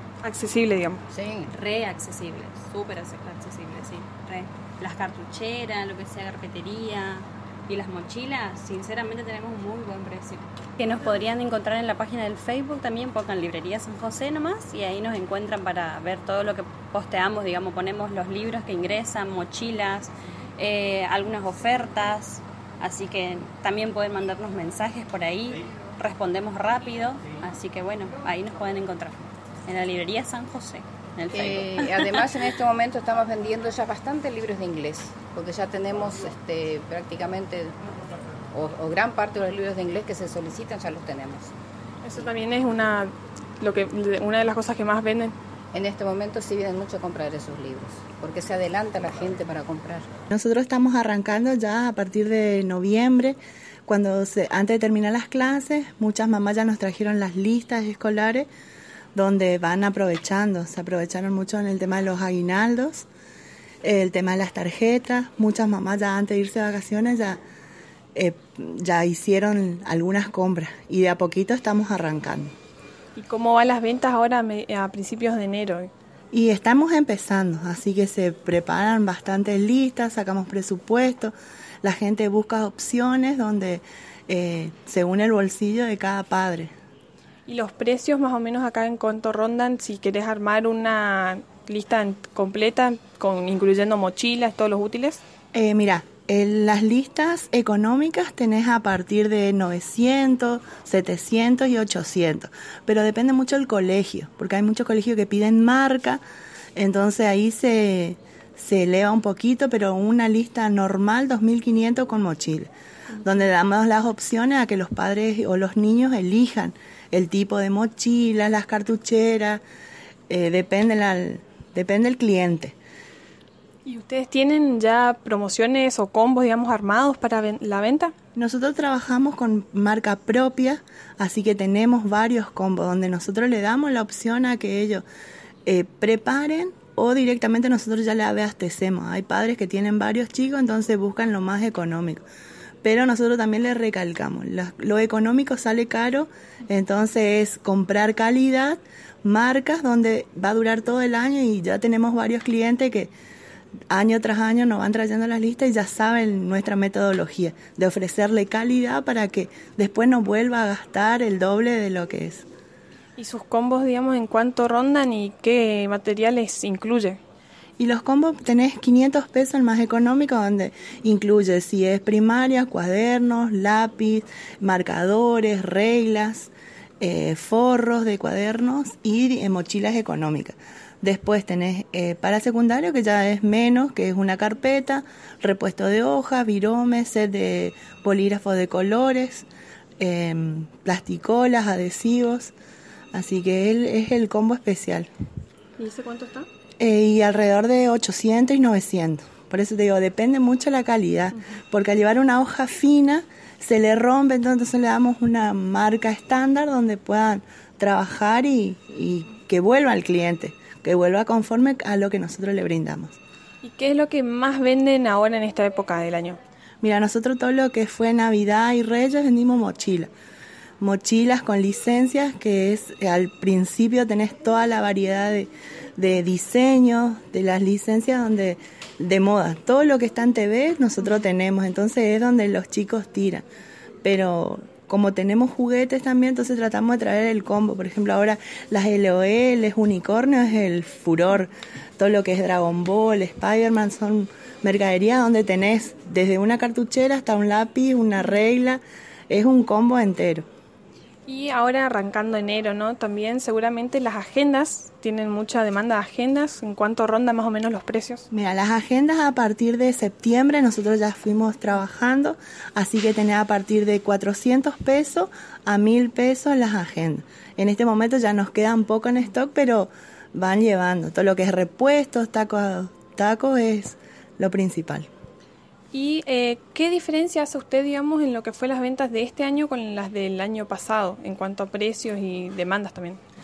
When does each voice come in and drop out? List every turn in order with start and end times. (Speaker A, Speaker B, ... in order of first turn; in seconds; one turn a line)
Speaker A: 0.2-1.0
Speaker B: 1.1-1.5
Speaker C: 1.5-32.3
Speaker B: 31.3-37.8
Speaker B: 38.5-41.5
Speaker A: 42.0-45.3
Speaker B: 45.7-50.1
Speaker D: 50.3-58.5
Speaker D: 59.1-63.1
Speaker D: 63.8-67.4
Speaker D: 68.2-72.5
Speaker A: 73.2-75.9
Speaker D: 76.3-86.7
Speaker A: 87.5-95.2
Speaker D: 95.5-106.2
Speaker D: 106.8-112.7
Speaker D: 113.2-119.6
Speaker D: 120.3-122.8
Speaker A: 123.9-128.1
Speaker D: 128.4-135.0
Speaker D: 135.7-142.2
Speaker D: 142.8-153.1
Speaker D: 153.9-162.5
Speaker A: 163.2-167.2
Speaker D: 167.8-189.5
Speaker D: 190.0-192.5
Speaker D: 193.1-195.1
Speaker A: 195.8-196.5
Speaker D: 196.8-213.2
Speaker A: 213.6-216.4
Speaker D: 216.8-220.1
Speaker D: 220.8-233.4
Speaker D: 234.0-250.4
Speaker A: 251.3-258.2
Speaker D: 258.3-275.1
Speaker A: 275.9-283.2